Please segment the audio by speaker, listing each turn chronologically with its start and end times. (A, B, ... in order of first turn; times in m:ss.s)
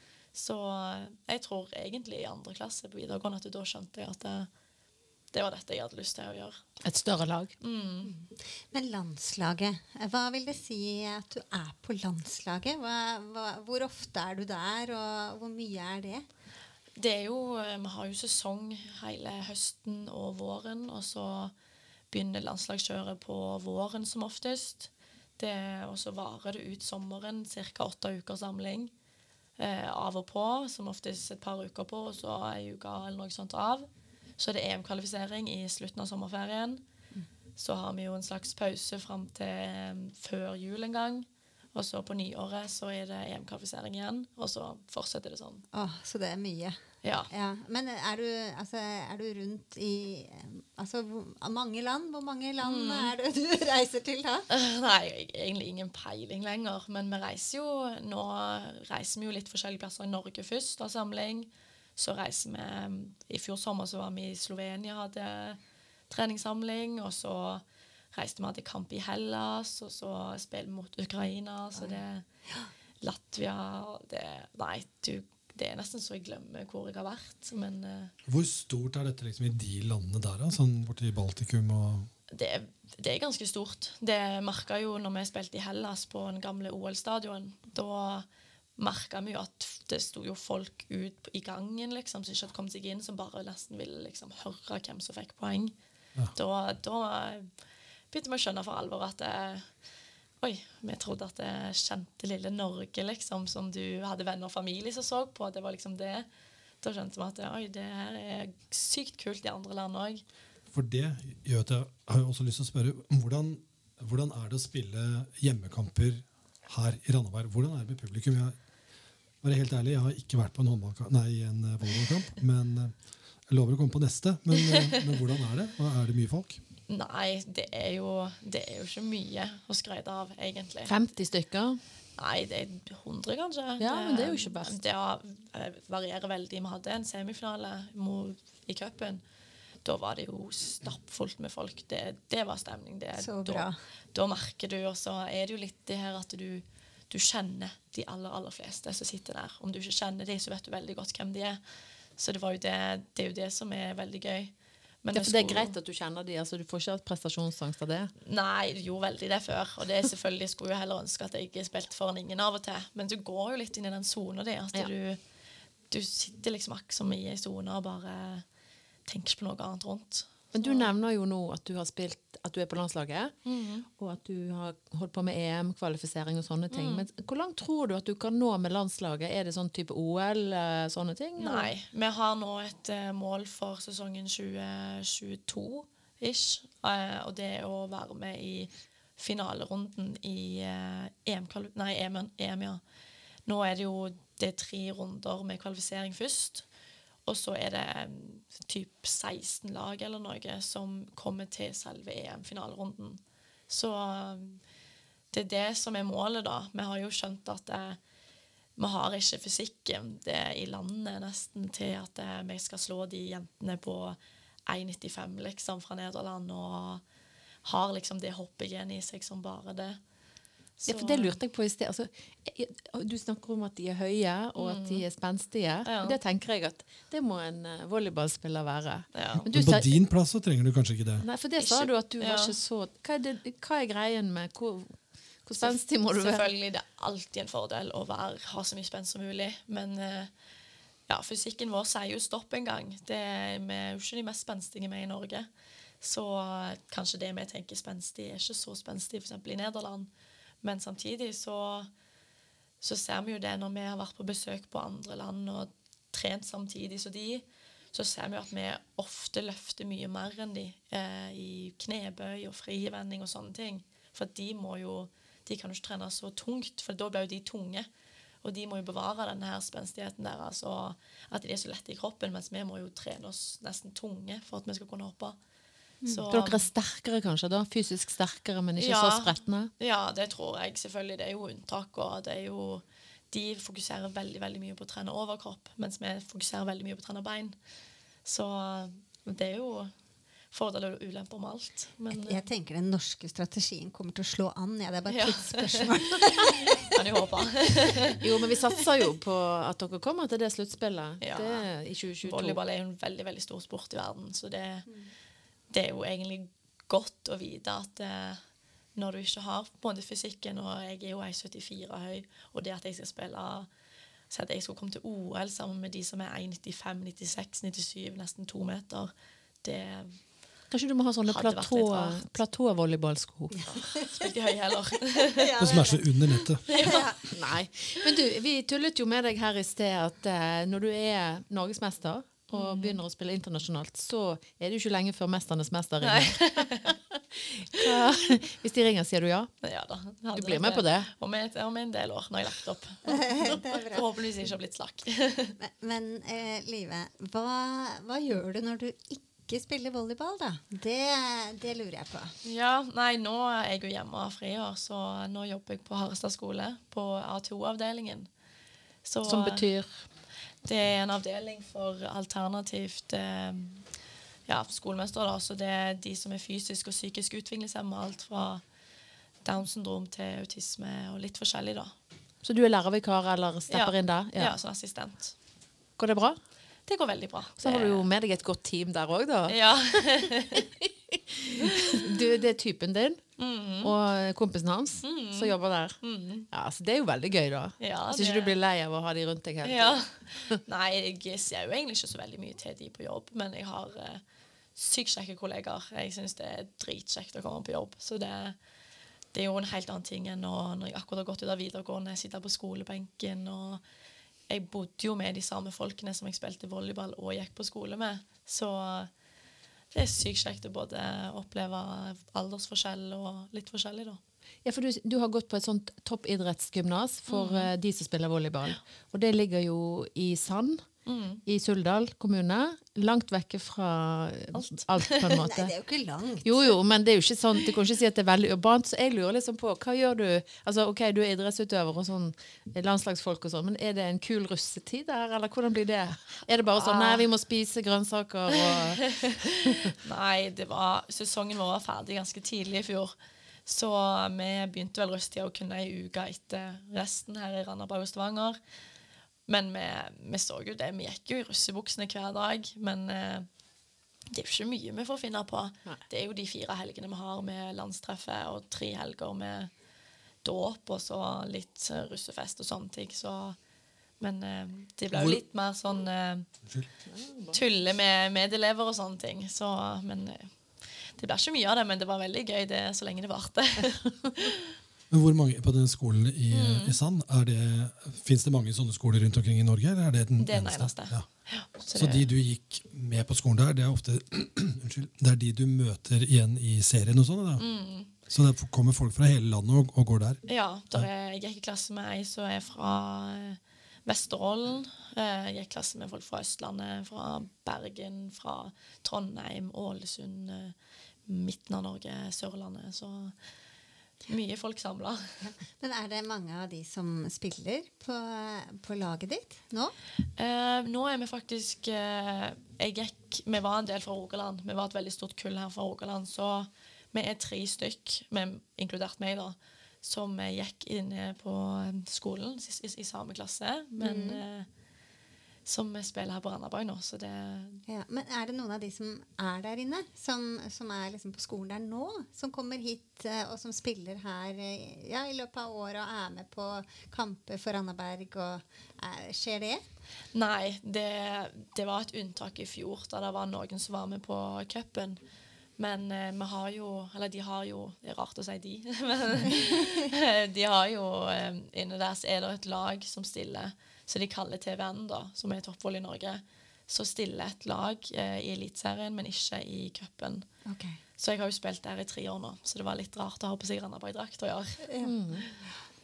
0:00.3-0:04.5 A
0:05.3-0:06.6 A
0:06.8-0:07.5 B
0:07.6-0:08.1 A
0:08.0-0:16.2 C
0:17.0-0:21.5 A
0:22.1-0:28.9 A
0:29.6-0:36.8 A
0:37.6-0:45.6 A
0:45.7-0:46.8 C
0:47.0-0:47.3 A
0:47.3-0:54.5 C
0:52.6-0:53.1 A
0:54.5-1:05.6 A
1:06.1-1:12.2 A
1:13.0-1:18.1 A
1:18.2-1:22.1 D
1:22.3-1:28.2 A
1:28.8-1:35.7 A
1:36.3-1:37.5 A
1:38.1-1:39.7 A
1:40.4-1:46.3 A
1:46.8-1:50.2 A
1:50.7-1:58.6 D
1:59.4-2:06.6 D
2:04.5-2:05.0 A
2:06.9-2:10.9 A
2:10.9-2:11.8 B
2:12.2-2:19.2 A
2:13.8-2:14.7 B
2:19.8-2:31.6 A
2:23.2-2:23.8 C
2:32.2-2:35.7 A
2:35.1-2:38.1 B
2:38.2-2:45.2 A
2:45.9-2:48.4 A
2:49.1-2:50.9 A
2:50.5-2:53.3 B
2:53.4-2:53.9 A
2:53.9-3:01.7 B
2:56.7-2:57.1 A
3:01.4-3:12.8 A
3:13.4-3:16.6 A
3:17.2-3:24.6 A
3:25.3-3:28.0 A
3:28.8-3:37.0 A
3:37.6-3:40.0 A
3:40.8-3:41.4 A
3:40.9-3:50.0 B
3:44.6-3:45.0 A
3:45.8-3:46.2 A
3:49.1-3:49.5 A
3:49.5-3:51.2 D
3:51.2-3:56.5 B
3:51.6-3:52.6 A
3:55.6-4:00.3 A
4:01.1-4:05.5 A
4:06.0-4:10.1 A
4:10.6-4:11.9 A
4:12.8-4:27.9 A
4:28.4-4:35.4 A
4:36.1-4:36.7 A
4:36.3-4:39.7 B
4:38.8-4:47.6 A
4:48.2-4:49.9 A
4:50.5-4:52.4 A
4:52.1-4:56.9 C
4:55.1-4:58.2 A
4:58.2-5:02.6 B
5:01.2-5:01.7 A
5:02.2-5:04.9 A
5:05.7-5:08.4 A
5:08.9-5:13.7 A
5:14.3-5:19.1 A
5:19.6-5:20.2 A
5:20.7-5:23.7 B
5:21.3-5:22.3 A
5:23.5-5:24.3 C
5:23.7-5:25.7 A
5:25.1-5:27.3 C
5:25.6-5:26.6 D
5:26.7-5:27.1 A
5:27.3-5:39.5 B
5:32.5-5:33.0 A
5:36.0-5:36.9 A
5:39.6-5:45.5 A
5:40.3-5:41.1 B
5:43.0-5:44.0 C
5:45.6-5:52.3 C
5:52.4-5:58.3 A
5:59.0-5:59.7 A
5:59.2-6:00.0 B
6:00.6-6:03.8 A
6:04.5-6:08.6 A
6:09.4-6:11.9 A
6:12.4-6:14.5 B
6:13.7-6:15.3 A
6:16.0-6:16.4 B
6:16.9-6:18.1 A
6:17.6-6:19.6 B
6:19.5-6:20.6 A
6:20.5-6:23.2 B
6:21.8-6:22.1 A
6:23.4-6:23.9 A
6:23.8-6:26.0 B
6:25.0-6:26.5 A
6:26.5-6:30.6 B
6:27.8-6:28.6 A
6:29.6-6:34.2 A
6:34.8-6:38.6 A
6:39.3-6:43.8 A
6:44.5-6:49.1 A
6:49.9-6:54.2 A
6:54.6-7:00.9 B
6:57.3-6:57.7 A
7:01.0-7:01.4 A
7:01.4-7:05.7 B
7:04.5-7:05.4 A
7:05.3-7:06.8 C
7:06.4-7:19.9 B
7:16.7-7:17.3 A
7:18.6-7:23.1 A
7:23.6-7:28.6 A
7:29.5-7:33.5 A
7:34.3-7:39.7 A
7:40.4-7:43.6 A
7:44.2-7:46.5 A
7:45.1-7:45.4 D
7:47.0-7:47.6 B
7:47.5-7:50.5 A
7:51.2-7:54.7 A
7:55.1-8:01.2 D
7:56.5-7:57.0 A
8:00.4-8:02.3 A
8:01.9-8:07.7 D
8:07.6-8:08.1 A
8:08.3-8:10.4 D
8:10.5-8:20.7 A
8:21.3-8:23.3 A
8:24.3-8:25.4 A
8:25.4-8:29.9 C
8:30.4-8:44.7 A
8:44.0-8:44.4 C
8:45.6-8:47.8 A
8:47.9-8:59.8 C
9:00.3-9:05.2 A
9:05.8-9:20.5 A
9:20.6-9:21.0 C
9:21.2-9:25.5 A
9:24.8-9:25.1 C
9:25.0-9:25.5 B